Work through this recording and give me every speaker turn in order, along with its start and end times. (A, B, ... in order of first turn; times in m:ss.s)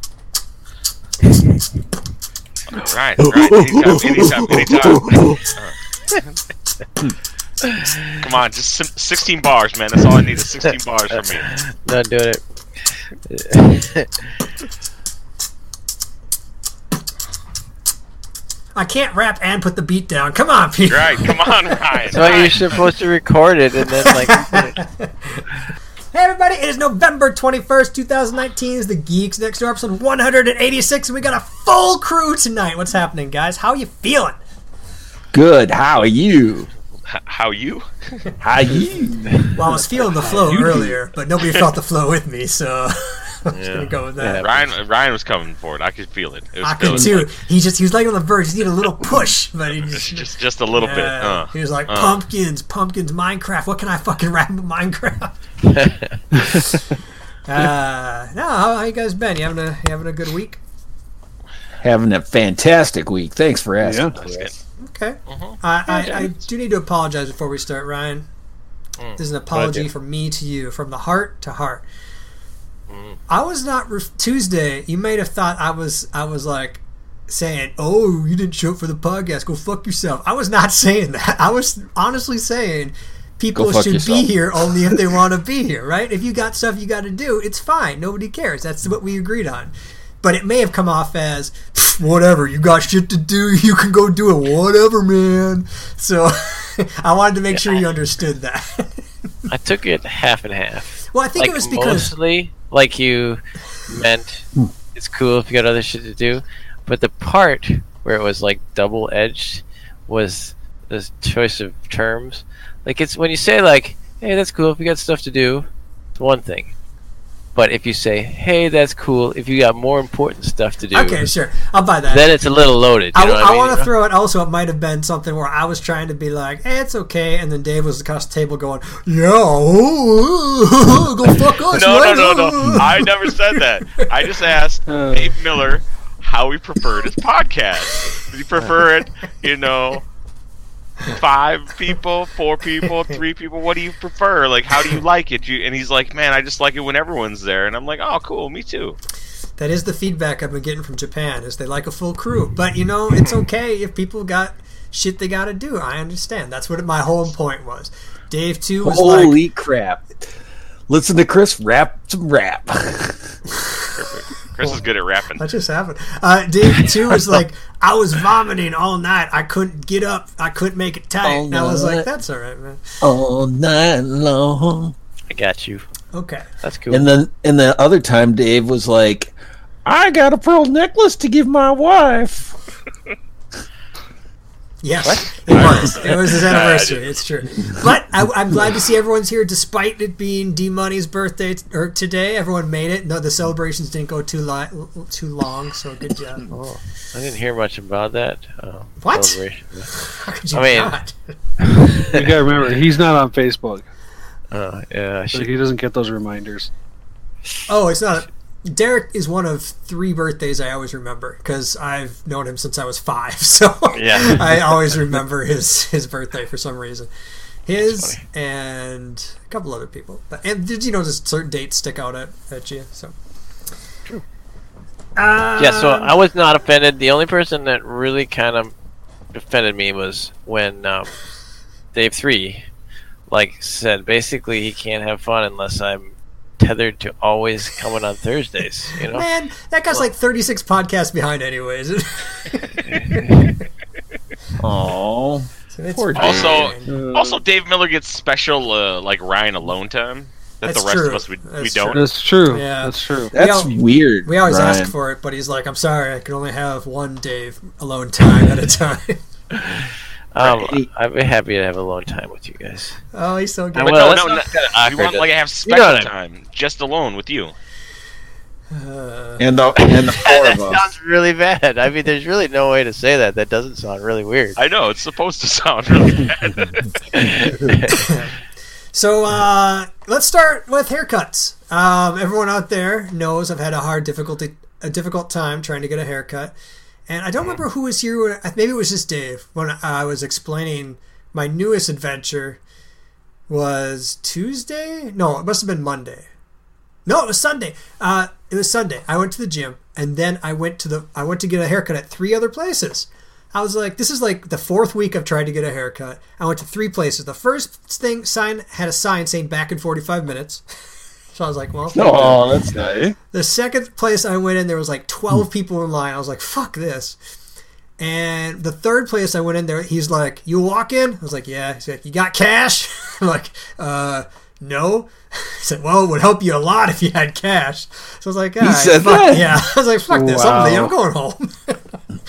0:02.7-0:05.8 A
0:03.2-0:05.4 B
0:07.6-0:08.0 C
0:08.2-0:11.5 A
0:11.4-0:12.4 C
0:13.3-0:14.3 C
0:18.8-0:22.3 D
0:20.9-0:22.8 A
0:22.1-0:24.8 C
0:24.0-0:25.5 D
0:26.1-0:34.4 D
0:35.3-0:36.7 B
0:37.1-0:37.9 A
0:38.4-0:39.3 B
0:39.2-0:39.6 C
0:39.6-0:44.4 D
0:40.1-0:41.0 E
0:43.5-0:44.7 C
0:44.4-0:47.3 A
0:46.6-0:55.4 D
0:49.8-0:52.2 A
0:55.7-0:56.1 C
0:56.3-0:56.8 E
0:57.4-1:00.6 D
1:01.8-1:04.5 B
1:03.8-1:04.1 E
1:04.2-1:04.5 C
1:04.2-1:04.5 A
1:04.8-1:08.3 D
1:05.3-1:05.6 A
1:05.9-1:06.3 C
1:09.0-1:09.9 C
1:09.2-1:11.8 D
1:12.9-1:13.2 C
1:13.3-1:39.0 D
1:23.6-1:25.2 B
1:37.5-1:37.8 C
1:39.5-1:56.7 C
1:41.1-1:42.1 D
1:57.6-2:01.3 C
2:00.9-2:02.3 D
2:02.1-2:03.9 C
2:03.1-2:14.1 D
2:11.7-2:20.0 A
2:14.9-2:15.4 E
2:21.0-2:29.0 A
2:29.6-2:39.4 D
2:38.8-2:40.0 B
2:40.9-2:43.4 B
2:43.5-2:43.9 D
2:44.0-2:45.4 A
2:45.4-2:53.0 D
2:51.2-2:52.1 B
2:53.0-2:54.9 B
2:55.3-2:55.8 C
2:56.1-2:56.5 D
2:56.6-2:57.1 C
2:56.9-2:59.3 B
2:59.8-3:02.6 B
3:04.8-3:16.5 D
3:05.5-3:07.2 A
3:16.5-3:19.9 C
3:19.0-3:21.3 D
3:20.5-3:21.0 C
3:21.6-3:22.3 C
3:22.1-3:23.9 E
3:24.5-3:25.5 C
3:25.3-3:26.7 E
3:27.7-3:37.1 D
3:33.9-3:35.0 C
3:37.7-3:43.1 D
3:37.8-3:38.2 C
3:45.2-3:46.1 D
3:45.6-3:48.7 C
3:49.3-3:51.2 C
3:51.9-3:52.7 C
3:53.3-3:59.3 C
3:59.1-4:03.6 D
4:02.9-4:03.3 C
4:04.6-4:06.7 B
4:05.7-4:07.0 D
4:06.2-4:12.0 A
4:06.9-4:07.4 E
4:10.6-4:19.2 D
4:11.9-4:13.3 E
4:13.3-4:14.9 B
4:19.5-4:23.0 C
4:20.4-4:20.9 B
4:23.1-4:24.2 D
4:23.8-4:26.1 C
4:23.8-4:27.5 A
4:28.7-4:29.4 D
4:29.4-4:30.8 B
4:29.8-4:34.6 C
4:34.6-4:36.9 A
4:37.1-4:37.9 C
4:37.9-4:38.4 D
4:38.9-4:46.6 D
4:47.1-4:52.6 D
4:53.5-4:56.3 D
4:57.1-5:10.6 D
5:11.3-5:12.6 D
5:11.9-5:13.1 B
5:12.7-5:13.2 E
5:13.3-5:17.2 D
5:18.0-5:32.0 D
5:28.6-5:29.6 B
5:30.1-5:30.9 E